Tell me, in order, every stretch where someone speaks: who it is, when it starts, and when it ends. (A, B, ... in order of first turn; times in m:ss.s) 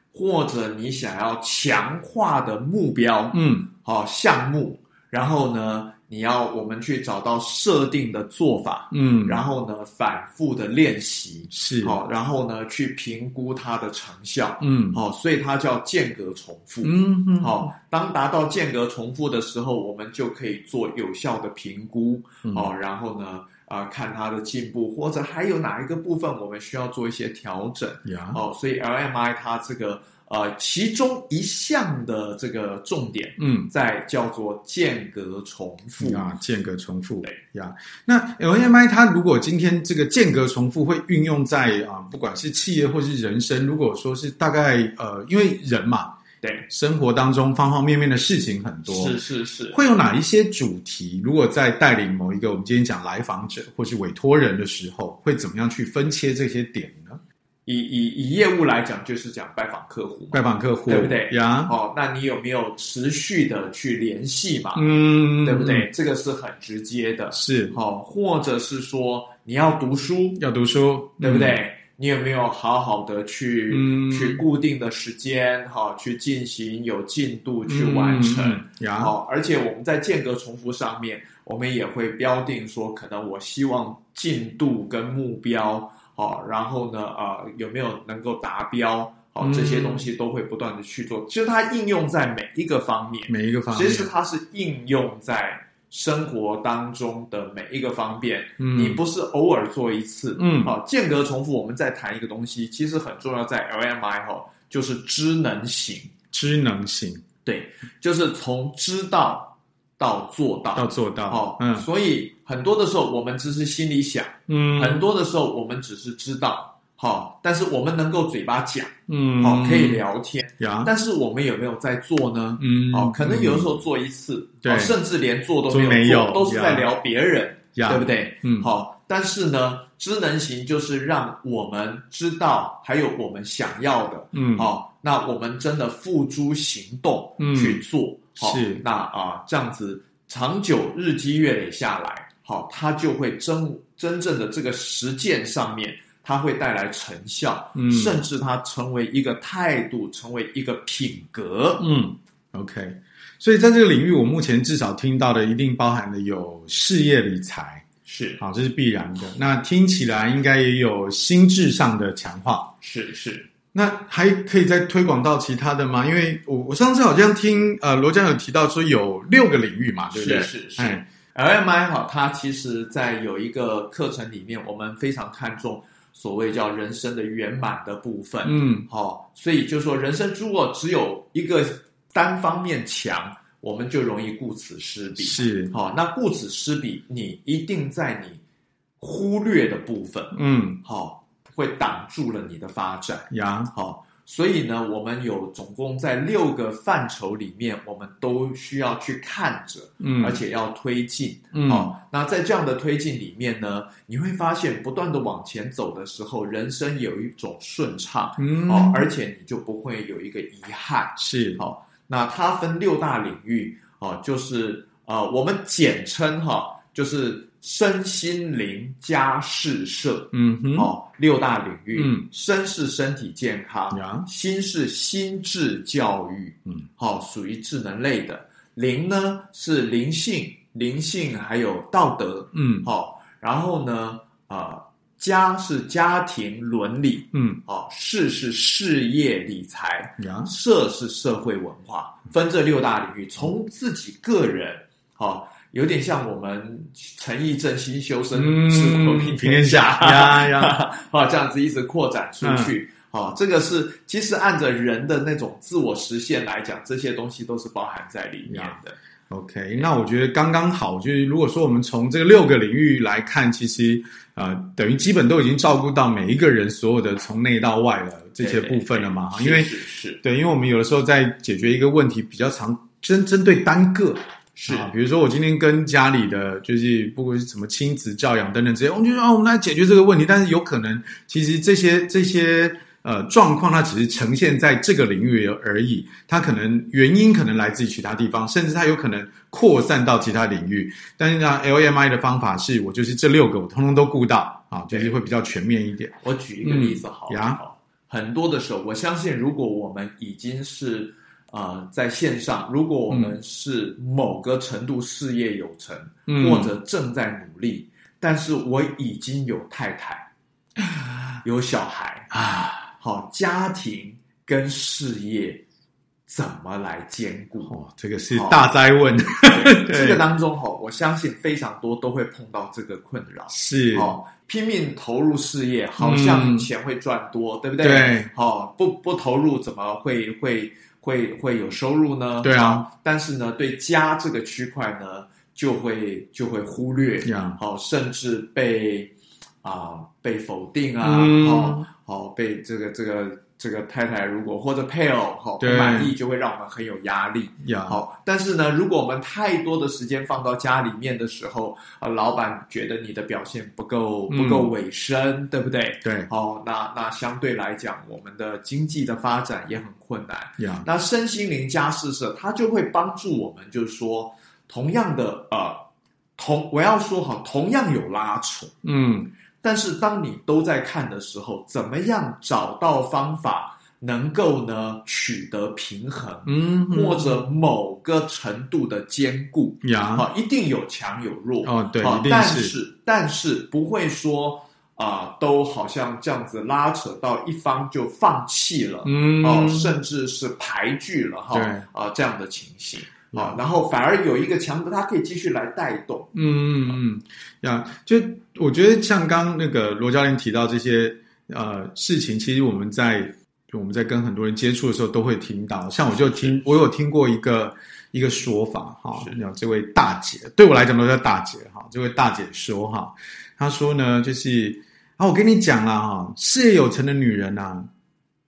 0:00.1-0:36.2 A
0:03.3-0:03.7 B
0:08.9-0:09.4 B
0:11.5-0:12.0 B
0:14.6-0:15.0 B
0:16.8-0:17.7 B
0:28.1-0:28.4 B
0:33.4-0:33.7 B
0:36.0-0:46.2 B
0:46.4-0:46.7 A
0:46.7-0:49.2 B
0:48.9-0:49.8 A
0:49.7-0:57.2 B
0:57.7-1:10.4 A
1:00.3-1:01.7 B
1:04.8-1:05.9 B
1:07.3-1:07.8 B
1:10.4-1:11.6 B
1:11.2-1:46.1 A
1:13.7-1:14.4 B
1:17.7-1:19.1 B
1:29.4-1:30.0 B
1:33.3-1:34.1 B
1:38.6-1:39.0 B
1:40.4-1:40.8 B
1:46.3-1:47.2 B
1:47.4-2:31.9 A
1:50.8-1:51.9 B
1:54.5-1:55.1 B
1:59.1-2:00.0 B
2:00.6-2:00.9 B
2:02.6-2:03.8 B
2:04.6-2:05.0 B
2:05.7-2:06.9 B
2:07.8-2:08.7 B
2:14.3-2:14.7 B
2:17.4-2:17.8 B
2:18.4-2:18.8 B
2:27.8-2:28.2 B
2:31.8-2:37.8 B
2:38.1-2:38.4 A
2:38.4-2:42.7 B
2:42.8-2:43.5 A
2:43.7-2:51.0 B
2:50.1-3:08.4 A
2:58.4-2:58.9 B
3:05.2-3:05.7 B
3:09.0-4:19.0 A
3:10.3-3:10.8 B
3:13.3-3:13.7 B
3:20.0-3:20.4 B
3:21.5-3:21.9 B
3:28.4-3:29.0 B
3:31.2-3:31.6 B
3:40.3-3:40.9 B
3:42.0-3:42.3 B
3:43.9-3:44.3 B
3:52.5-3:52.9 B
3:57.3-3:57.6 B
4:00.2-4:00.5 B
4:08.3-4:10.8 B
4:12.4-4:12.8 B
4:18.5-4:57.6 B
4:28.4-4:30.2 A
4:34.6-4:34.9 A
4:56.2-5:10.3 A
5:03.1-5:03.4 B
5:06.3-5:06.7 B
5:11.4-5:12.3 A
5:12.3-5:12.9 B
5:12.9-5:15.6 A
5:16.3-5:17.8 A
5:17.7-5:20.2 B
5:18.3-5:18.7 A
5:19.4-5:39.1 A
5:23.5-5:24.1 B
5:26.0-5:26.7 B
5:27.8-5:28.3 B
5:32.4-5:32.9 B
5:37.2-5:37.6 B
5:39.6-6:05.8 A
5:41.0-5:41.9 B
5:45.6-5:46.1 B
5:47.6-5:48.0 B
5:54.3-5:54.7 B
5:56.0-5:56.3 B
6:00.6-6:00.9 B
6:06.4-6:08.7 A
6:08.8-6:09.3 B
6:09.6-6:36.4 A
6:16.5-6:17.4 B
6:19.8-6:20.3 B
6:21.6-6:22.8 B
6:29.0-6:30.0 B
6:31.5-6:31.8 B
6:33.3-6:33.6 B
6:36.3-6:57.9 B
6:46.2-6:46.5 A